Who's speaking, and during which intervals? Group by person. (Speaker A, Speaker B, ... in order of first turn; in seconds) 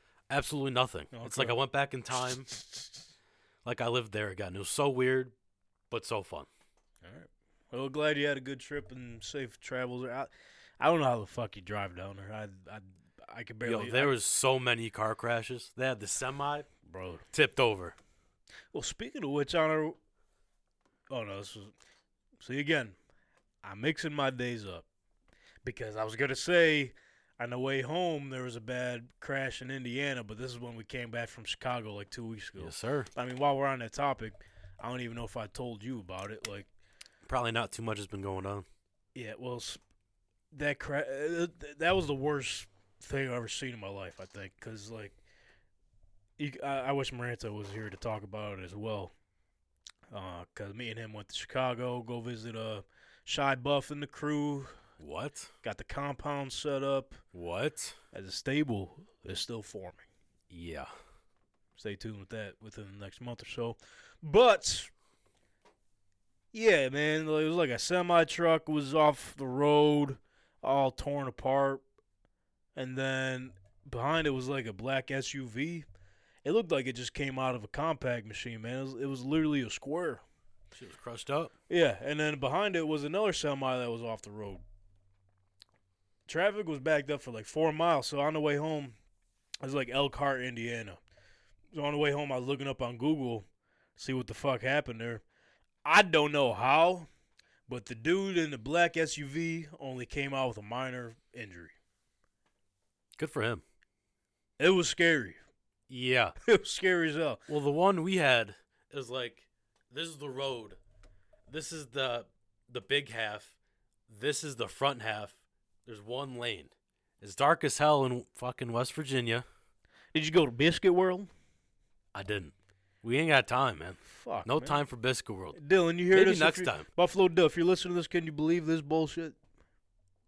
Speaker A: 0.3-2.5, 3.6-5.3, 5.9-6.5, 13.7-16.7, 17.3-18.0, 32.6-33.1, 37.2-38.7, 55.0-55.5, 57.3-58.0, 60.5-60.9, 80.7-81.5, 103.2-103.6, 105.9-106.3, 107.5-110.8, 111.5-113.5, 114.1-115.3, 115.9-119.5, 122.1-125.6, 126.1-126.9
Speaker B: 1.1-1.6, 7.0-14.1, 16.9-17.2, 18.7-20.0, 21.1-21.7, 22.4-23.0, 23.6-24.9, 25.6-36.7, 39.1-39.8, 40.5-45.2, 46.4-49.1, 50.1-54.8, 55.6-57.2, 58.1-60.1, 61.8-64.9, 66.5-71.8, 72.8-75.8, 76.5-80.2, 81.7-84.6, 86.3-89.0, 89.6-91.0, 91.7-93.5, 94.0-95.2, 95.8-97.1, 97.7-101.7, 104.6-105.4, 106.5-107.4, 120.1-121.3, 124.1-124.8, 125.5-129.4